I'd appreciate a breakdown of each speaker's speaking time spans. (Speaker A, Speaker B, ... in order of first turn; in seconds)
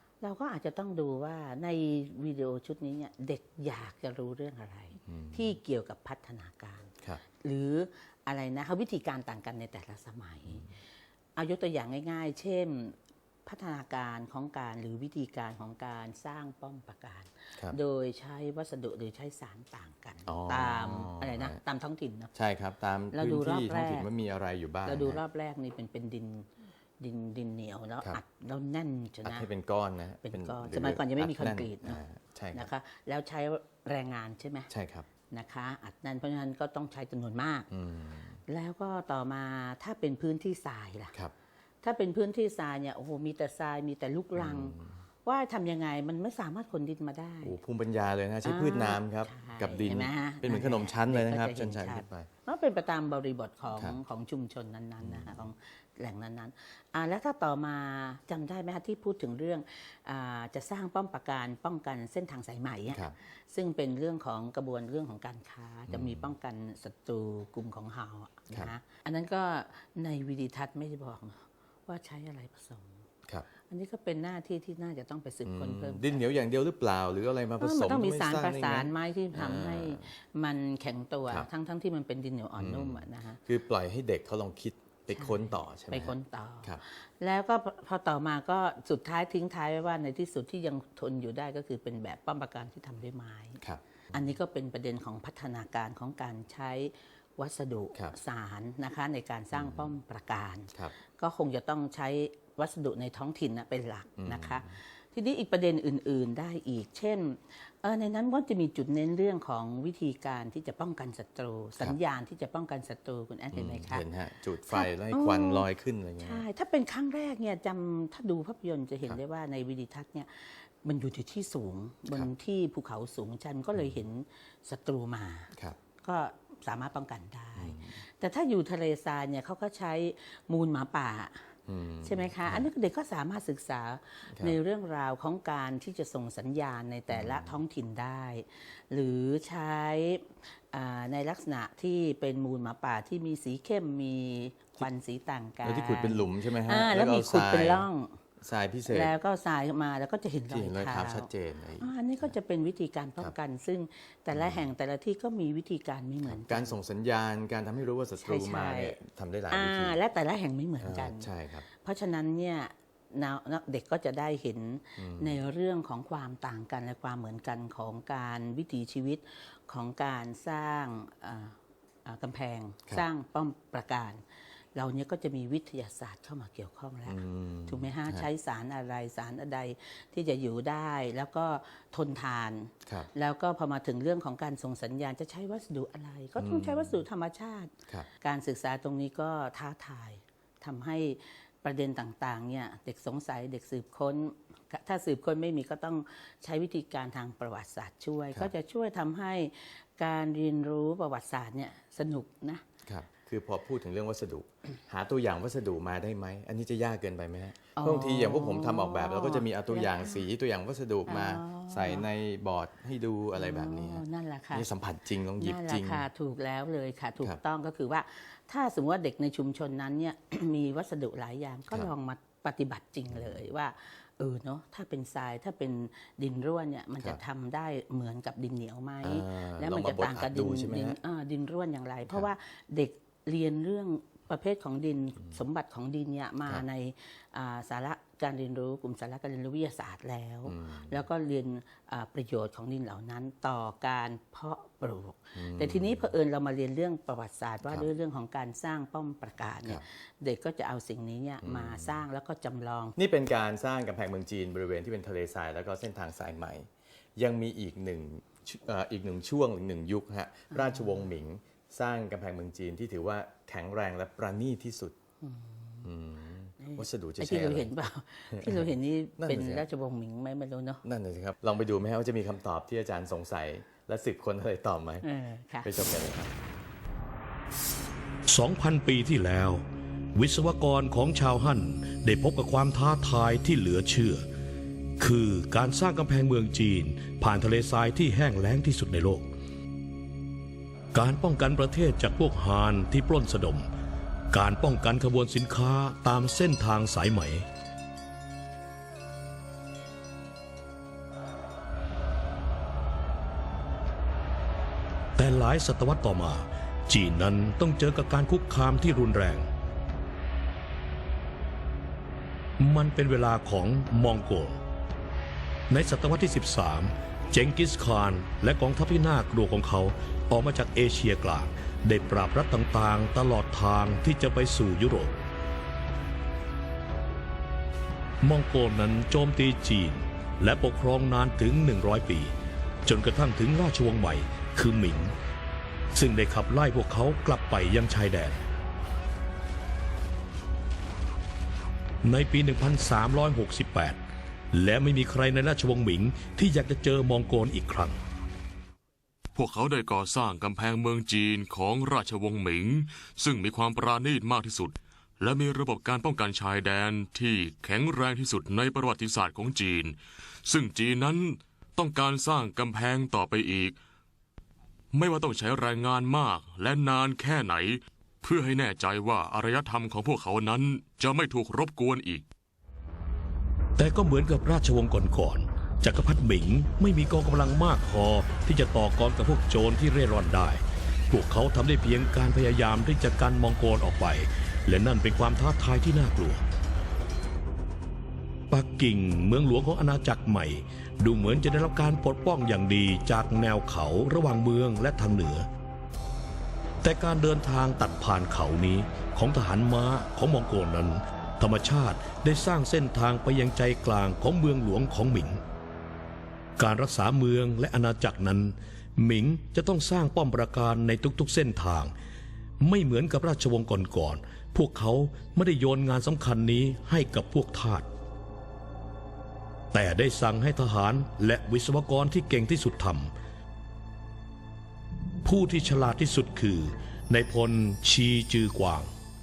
Speaker A: 0.2-10.7, 11.3-22.3, 23.1-24.1, 24.9-26.5, 27.0-29.5, 30.2-32.0, 32.5-34.7, 35.3-37.7, 38.5-41.1, 41.8-47.6, 48.5-73.0, 73.7-76.3, 77.6-83.4, 85.1-93.6, 94.1-114.1, 114.7-115.7, 116.2-148.2, 148.8-156.8, 158.2-159.0, 159.5-174.2, 174.8-202.6, 207.7-210.2, 211.1-212.1, 213.3-214.7, 215.3-253.0, 260.5-261.0, 265.2-265.9, 266.6-270.8, 275.0-275.7
Speaker B: 5.1-5.5, 20.3-21.6, 22.4-25.2, 29.2-32.7, 34.7-35.1, 37.7-38.4, 44.4-45.0, 47.4-52.3, 55.0-55.4, 62.9-63.1, 65.9-66.3, 75.4-80.0, 82.6-86.8, 99.5-99.9, 104.2-104.7, 113.5-116.4, 127.6-127.9, 131.7-132.7, 134.3-134.6, 137.1-137.5, 145.6-147.9, 148.4-149.1, 150.5-152.3, 154.3-154.7, 156.2-160.0, 160.8-161.6, 165.0-165.4, 177.1-178.3, 186.4-187.0, 202.9-216.0, 223.1-223.4, 229.0-231.0, 240.5-241.0, 245.3-246.1, 251.4-252.0, 253.0-265.0, 265.9-267.7, 268.3-268.7, 269.2-269.6, 270.8-275.1, 275.6-276.3
Speaker C: 278.3-279.6, 280.1-284.2, 285.0-289.3, 290.9-293.7, 294.3-297.5, 305.2-309.5, 312.6-314.6, 315.7-325.1, 328.2-332.3, 332.9-335.1, 335.9-338.4, 342.0-344.0, 344.5-348.0, 373.8-386.4, 388.5-395.4, 396.8-405.4, 406.6-411.9, 412.6-417.9, 419.7-423.1, 425.2-428.9
Speaker D: 349.4-363.8, 364.9-372.2